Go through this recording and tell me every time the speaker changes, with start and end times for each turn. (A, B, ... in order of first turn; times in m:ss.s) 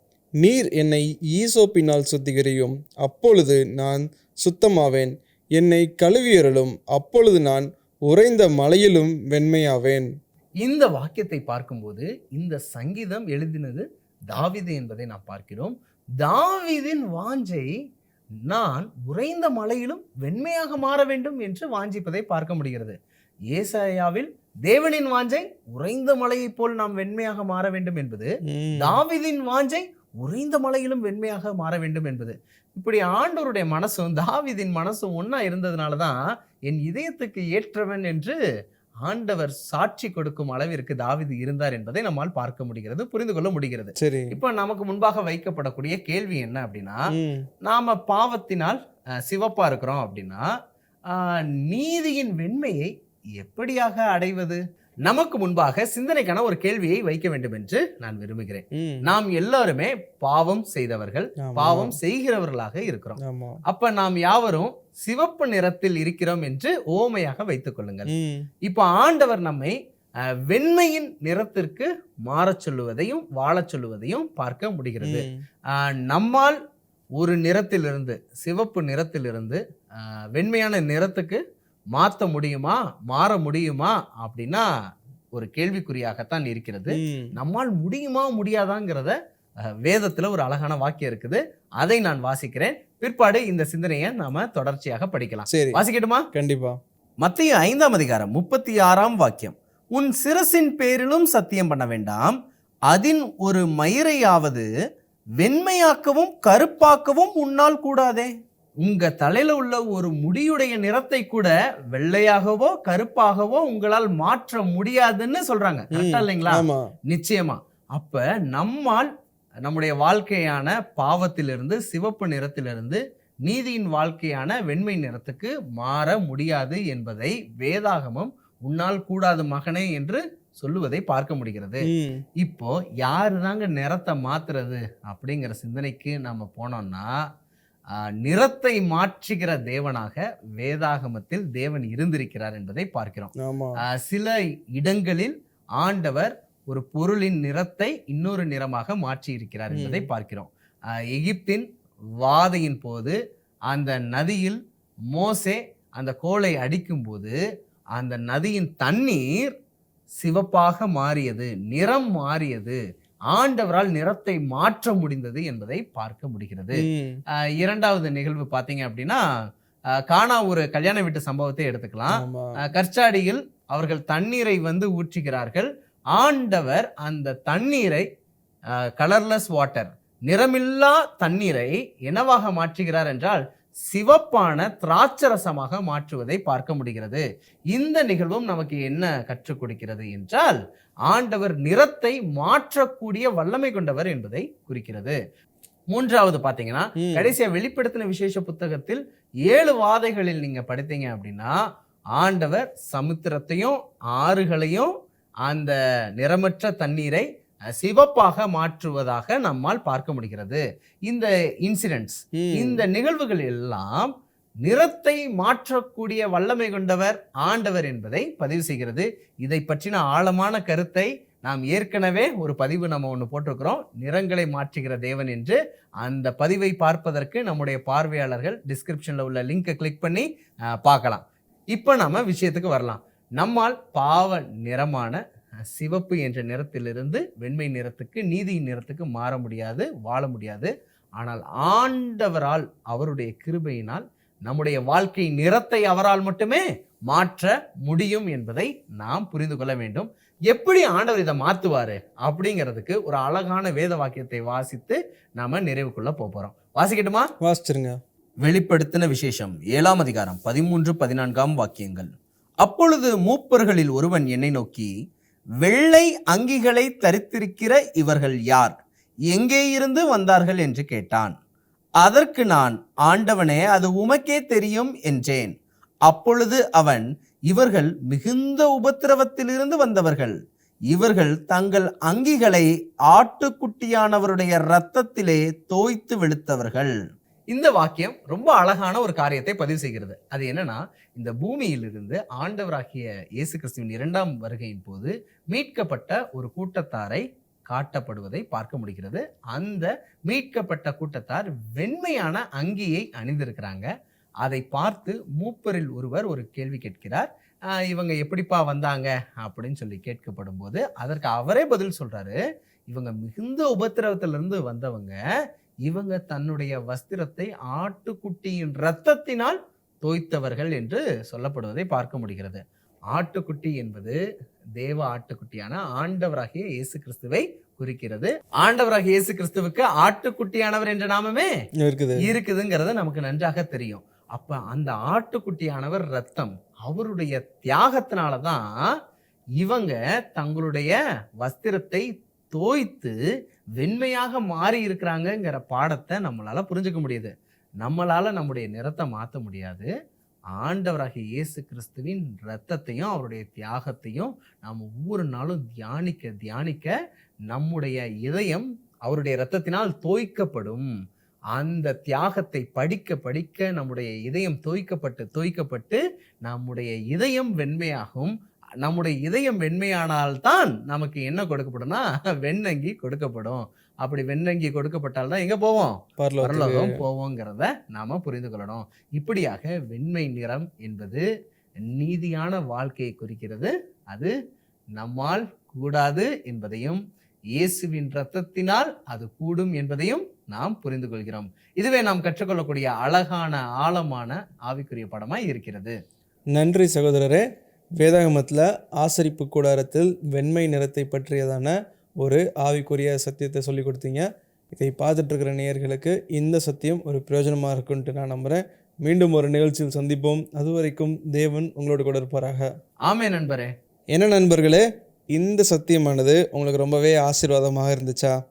0:00.4-0:10.1 A
0:10.6-0:17.7 B
0:18.4-0:23.0 B
0:23.5-0:36.2 B
0:28.5-0:29.0 A
0:36.7-0:38.3 B
0:39.0-0:47.0 B
0:44.0-0:44.4 A
0:47.1-0:47.4 A
0:47.6-0:50.4 B
0:51.1-1:08.1 B
0:58.7-0:59.0 A
1:01.4-1:02.0 A
1:03.2-1:03.6 A
1:08.1-1:08.5 A
1:08.6-1:09.7 B
1:10.5-1:16.6 B
1:15.0-1:15.4 A
1:17.2-1:21.4 B
1:21.9-1:24.6 B
1:25.3-1:29.1 B
1:26.9-1:27.3 A
1:29.8-1:36.2 B
1:35.5-1:35.8 A
1:36.3-1:36.8 A
1:37.2-1:42.4 B
1:42.9-1:44.7 B
1:45.4-1:48.3 B
1:48.8-1:59.1 B
1:55.9-1:56.8 A
1:59.6-2:11.9 B
2:11.8-2:12.2 A
2:12.4-2:17.1 B
2:18.0-2:30.5 B
2:23.4-2:23.8 A
2:29.7-2:30.1 A
2:31.1-2:31.6 B
2:32.2-2:33.1 B
2:33.7-2:34.6 B
2:35.1-2:37.3 B
2:37.9-2:39.5 B
2:40.2-2:42.8 B
2:43.3-2:46.8 B
2:46.8-2:47.2 A
2:47.6-2:49.2 B
2:50.1-2:58.0 B
2:52.1-2:52.5 A
2:59.0-3:15.2 B
3:15.9-3:21.5 B
3:17.0-3:17.3 A
3:22.1-3:24.9 B
3:25.4-3:27.2 B
3:27.7-3:34.1 B
3:32.3-3:32.8 A
3:34.6-3:50.2 B
3:50.8-3:51.2 B
3:51.7-3:55.2 B
3:55.7-4:17.3 B
4:17.4-4:18.0 A
4:18.4-4:22.1 B
4:22.6-4:24.9 B
4:25.6-4:28.7 B
4:29.3-4:31.3 B
4:32.0-4:35.5 B
4:36.1-4:40.3 B
4:40.9-4:46.9 B
4:47.5-5:03.9 B
5:04.4-5:07.3 B
5:07.8-5:12.4 B
5:12.9-5:15.2 B
5:15.8-5:22.6 B
5:23.1-5:24.2 B
5:24.8-5:31.5 B
5:31.8-5:32.2 A
5:32.2-5:38.7 B
5:39.6-5:43.1 B
5:43.8-5:49.9 B
5:50.5-5:56.9 B
5:57.5-6:00.9 B
6:01.5-6:21.2 B
6:16.2-6:17.0 A
6:21.9-6:24.3 B
6:25.0-6:27.0 B
6:27.5-6:35.9 B
6:36.5-6:37.4 A
6:38.0-6:52.7 A
6:53.0-6:53.7 B
6:54.1-6:58.3 A